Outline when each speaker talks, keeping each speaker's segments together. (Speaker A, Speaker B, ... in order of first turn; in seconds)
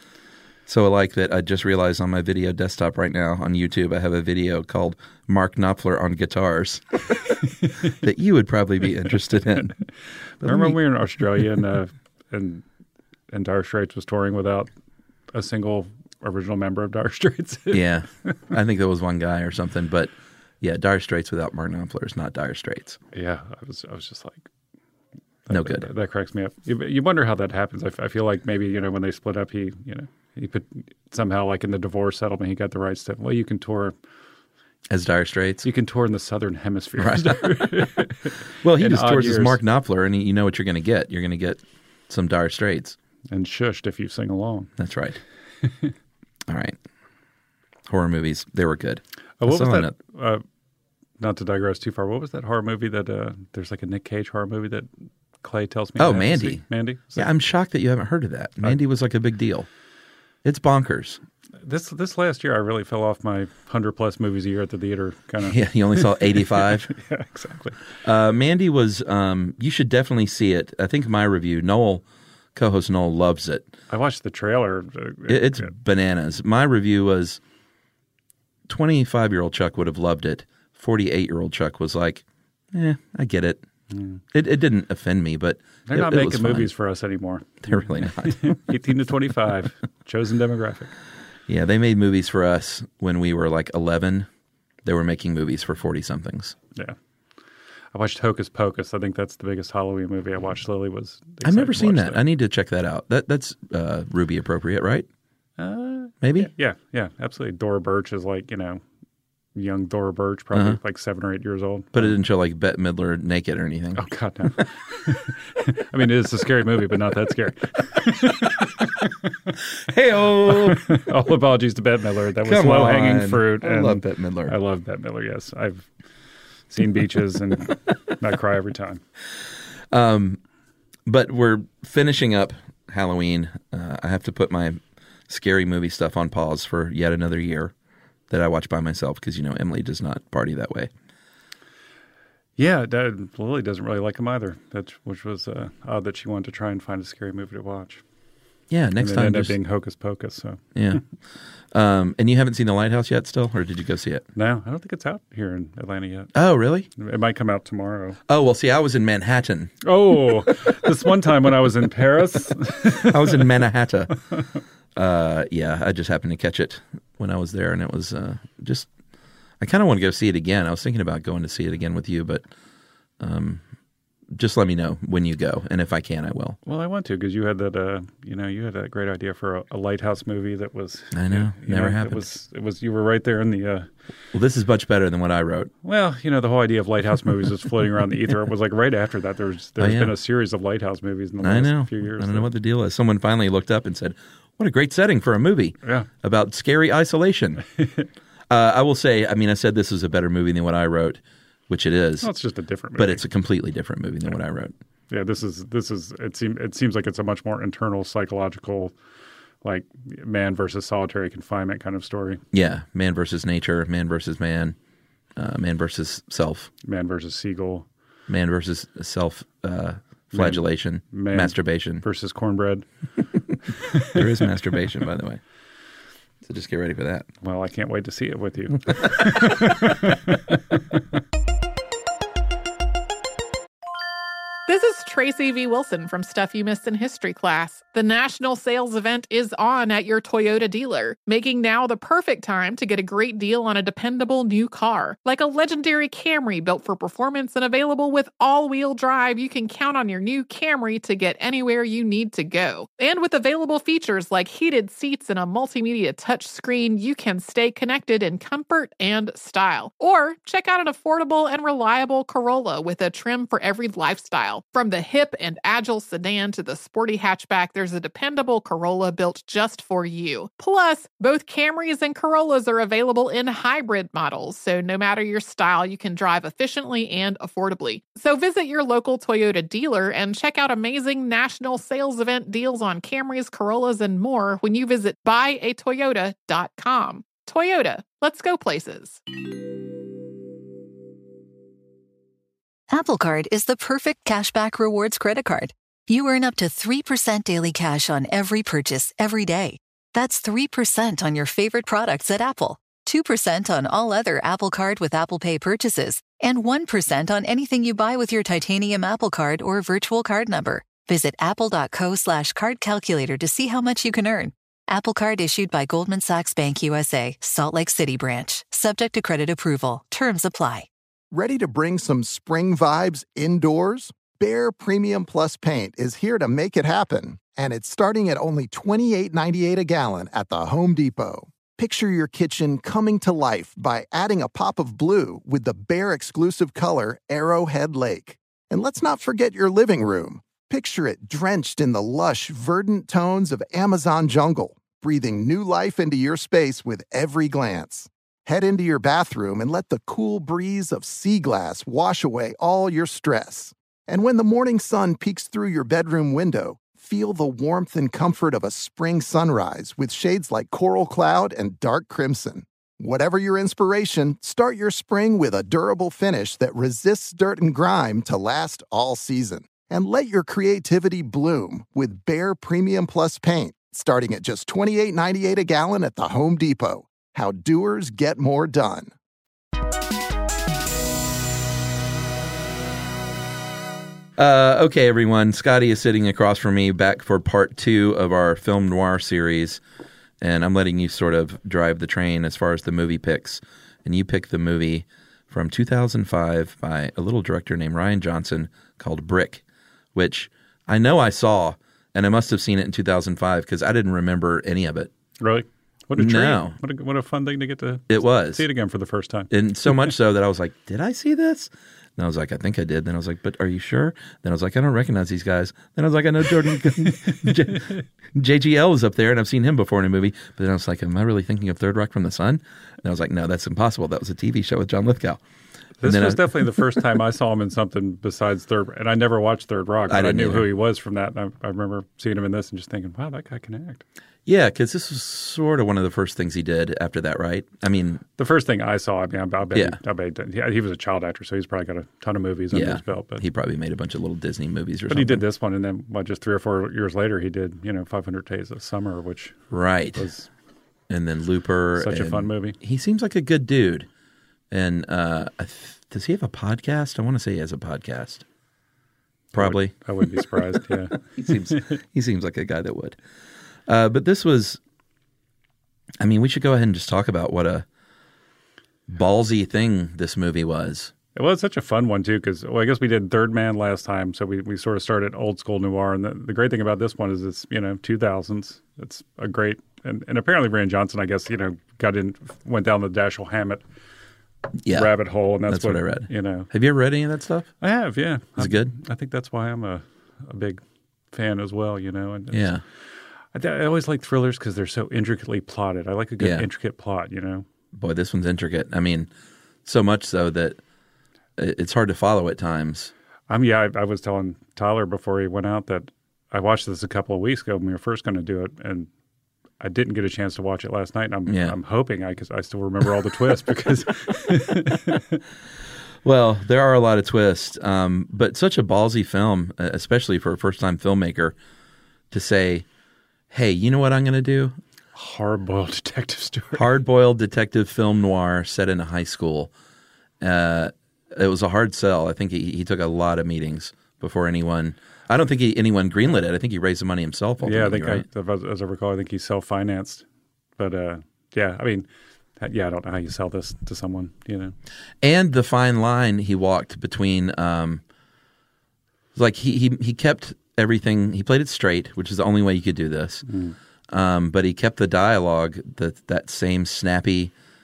Speaker A: 0.7-7.0, 8.0-9.8, 10.4-10.8, 17.7-23.0, 25.5-25.9, 34.9-35.7, 37.0-37.4, 38.6-43.0, 44.8-45.2, 46.5-46.8, 47.9-49.9, 56.0-56.6, 57.1-59.7, 60.4-61.2, 65.4-66.9, 68.0-72.0, 72.5-73.7, 75.3-77.4, 78.7-83.6, 84.3-86.7, 87.7-88.6, 91.5-94.3, 94.8-96.5, 101.4-105.1, 106.2-106.5, 111.9-114.0, 119.9-121.0, 122.4-124.5, 129.9-130.4, 131.1-137.7, 138.3-140.9, 148.7-149.6, 150.7-151.0, 151.7-154.2, 156.3-156.9, 158.3-159.7, 163.0-164.1, 164.9-168.9, 169.6-172.4, 173.2-173.6, 174.3-176.6, 181.1-182.2, 184.3-185.7, 189.8-190.2, 191.4-197.6, 198.5-202.3, 202.9-204.7, 212.5-214.8, 215.3-216.7, 218.3-222.0, 224.1-225.4, 226.4-227.3, 384.4-389.8, 390.4-399.6, 400.1-405.1, 406.1-406.8, 408.1-408.6, 409.5-425.4, 426.0-426.8, 430.1-430.7, 434.4-438.2, 442.7-445.4, 449.7-450.2, 451.1-454.1, 454.7-458.4, 459.5-459.9, 461.4-463.2, 463.9-464.8, 466.2-467.9, 469.1-471.1, 484.8-485.1, 485.6-487.7, 488.6-488.9, 492.5-492.8, 496.4-496.7, 497.9-499.3, 499.8-500.8, 501.6-503.1, 511.5-511.8, 516.2-521.5, 522.3-522.8, 523.5-524.7, 526.7-529.7, 530.4-538.2, 545.2-548.0, 549.3-553.4, 554.1-557.5
Speaker B: 10.4-12.6, 13.3-14.7, 15.3-18.4, 23.1-24.5, 25.4-33.9, 35.6-39.6, 43.3-44.7, 49.4-50.4, 51.2-54.9, 55.4-57.3, 61.6-67.9, 73.9-75.7, 83.9-84.2, 85.9-90.9, 97.9-102.2, 105.6-108.8, 109.5-112.2, 114.0-119.1, 120.5-125.9, 126.7-129.0, 142.6-148.0, 149.0-150.6, 154.3-156.3, 157.0-158.2, 159.8-163.6, 176.7-183.9, 185.8-192.5, 197.8-198.1, 202.2-203.2, 205.1-208.9, 209.6-212.4, 216.8-217.8, 220.3-222.8, 223.9-224.3, 227.4-230.6, 405.4-409.5, 426.0-434.0, 438.4-443.4, 445.1-449.6, 450.1-450.5, 452.0-452.8, 459.5-461.9, 471.3-483.8, 484.9-486.7, 487.8-490.8, 491.3-492.8, 493.5-497.6, 503.5-509.1, 509.8-515.4, 525.1-526.8, 537.6-540.2, 540.8-542.0, 542.6-544.7, 553.5-553.7
Speaker C: 234.7-289.2
Speaker D: 292.9-320.9
Speaker E: 321.3-379.1